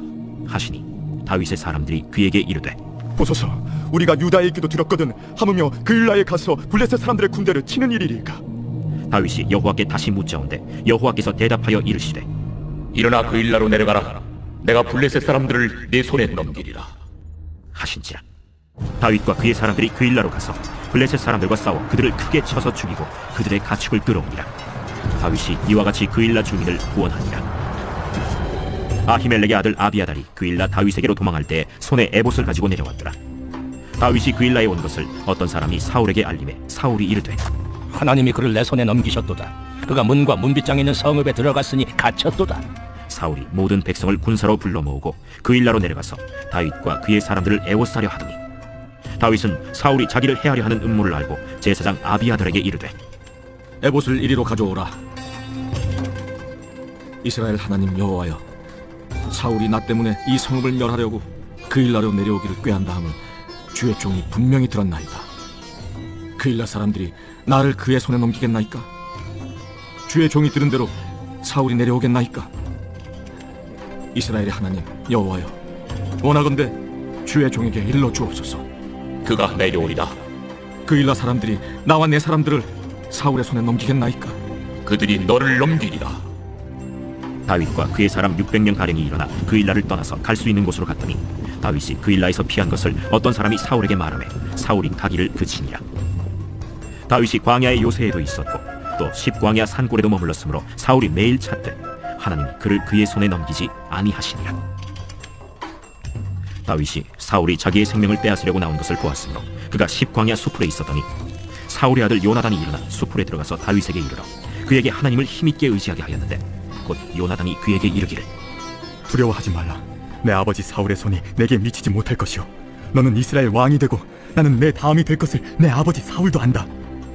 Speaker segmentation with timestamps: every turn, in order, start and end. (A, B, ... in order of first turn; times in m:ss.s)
0:00.5-0:02.8 A
0:03.2-0:08.4 B
0:09.1-0:12.3 A
0:12.9-0:16.9 C
0:17.7-0:18.2 A
0:19.0-0:24.5 A
0:25.2-0:27.5 A
0:29.1-0:33.2 A
0:34.0-0:37.4 A
0:37.9-0:42.6 D
0:43.1-0:48.4 A
0:49.2-0:52.9 A
0:53.8-0:55.0 E
0:57.2-0:58.4 E
0:59.3-1:03.2 E
1:03.7-1:05.3 E
1:06.4-1:08.9 E
1:10.1-1:12.5 E
1:14.2-1:15.6 E
1:16.2-1:18.6 E
1:19.2-1:20.2 C
1:20.9-1:24.4 E
1:24.8-1:26.2 C
1:27.5-1:35.8 A
1:37.1-1:44.6 A
1:46.7-1:51.1 A
1:51.7-1:58.3 A
1:59.1-2:06.7 B